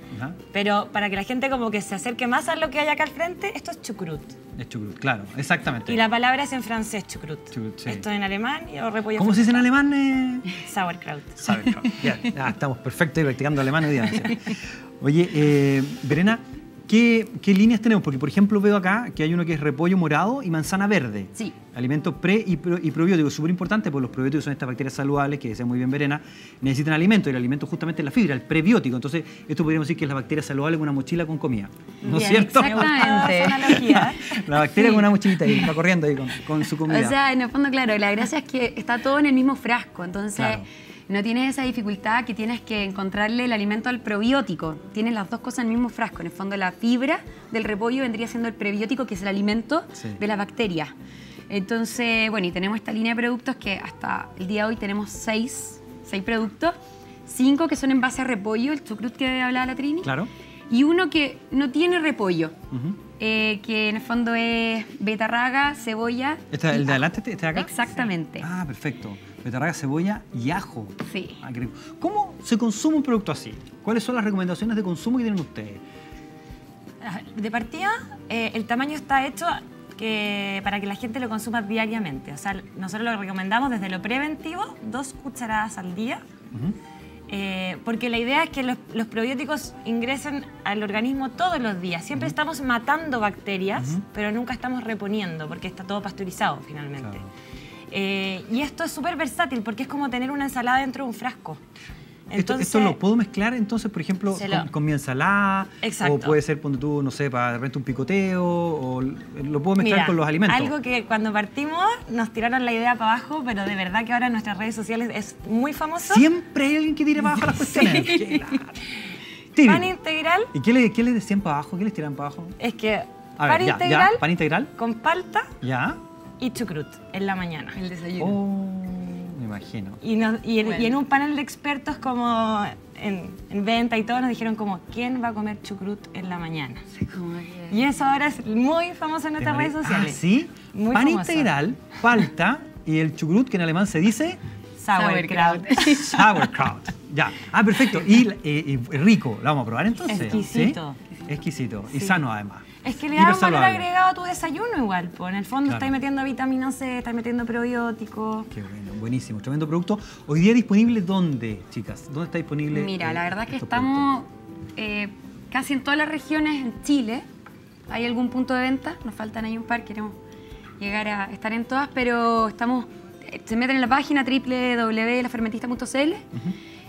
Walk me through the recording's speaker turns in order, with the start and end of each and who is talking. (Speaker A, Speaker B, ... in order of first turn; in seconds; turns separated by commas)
Speaker A: 0.1-0.4, Speaker B: 0.5-4.4, Speaker A: 4.6-6.0, Speaker B: 5.9-9.7, Speaker A: 7.5-8.1, Speaker A: 9.2-10.5, Speaker B: 10.5-11.7, Speaker A: 11.4-37.2, Speaker B: 32.1-35.1, Speaker C: 32.1-33.8, Speaker C: 36.9-50.9, Speaker A: 40.4-40.7, Speaker C: 51.5-56.7, Speaker C: 57.3-60.1, Speaker A: 60.0-60.3, Speaker C: 60.7-62.5, Speaker A: 62.7-63.0, Speaker C: 63.2-68.5, Speaker A: 66.5-75.8, Speaker C: 71.0-71.4, Speaker B: 77.0-86.2, Speaker B: 87.3-97.3, Speaker A: 93.8-94.0, Speaker B: 97.9-101.6, Speaker B: 102.3-103.0, Speaker A: 102.3-110.7, Speaker B: 104.3-104.7, Speaker B: 105.8-106.4, Speaker B: 109.8-116.3, Speaker A: 116.0-118.9, Speaker B: 117.4-118.1, Speaker A: 119.5-119.9, Speaker B: 119.6-120.5, Speaker A: 120.5-122.6, Speaker B: 122.6-125.5, Speaker A: 123.4-124.7, Speaker A: 125.6-126.0, Speaker B: 126.4-127.8, Speaker C: 127.8-128.4, Speaker A: 128.2-130.0, Speaker B: 130.0-136.9, Speaker C: 130.6-131.0, Speaker C: 136.9-137.8, Speaker B: 137.7-141.6, Speaker A: 139.4-144.4, Speaker B: 144.8-146.1, Speaker C: 144.9-146.4, Speaker A: 145.8-153.9, Speaker B: 150.1-151.1, Speaker B: 151.9-152.2, Speaker B: 152.8-158.5, Speaker A: 155.7-156.0, Speaker A: 158.5-164.1, Speaker C: 162.7-167.3, Speaker C: 167.9-170.2, Speaker C: 170.8-176.3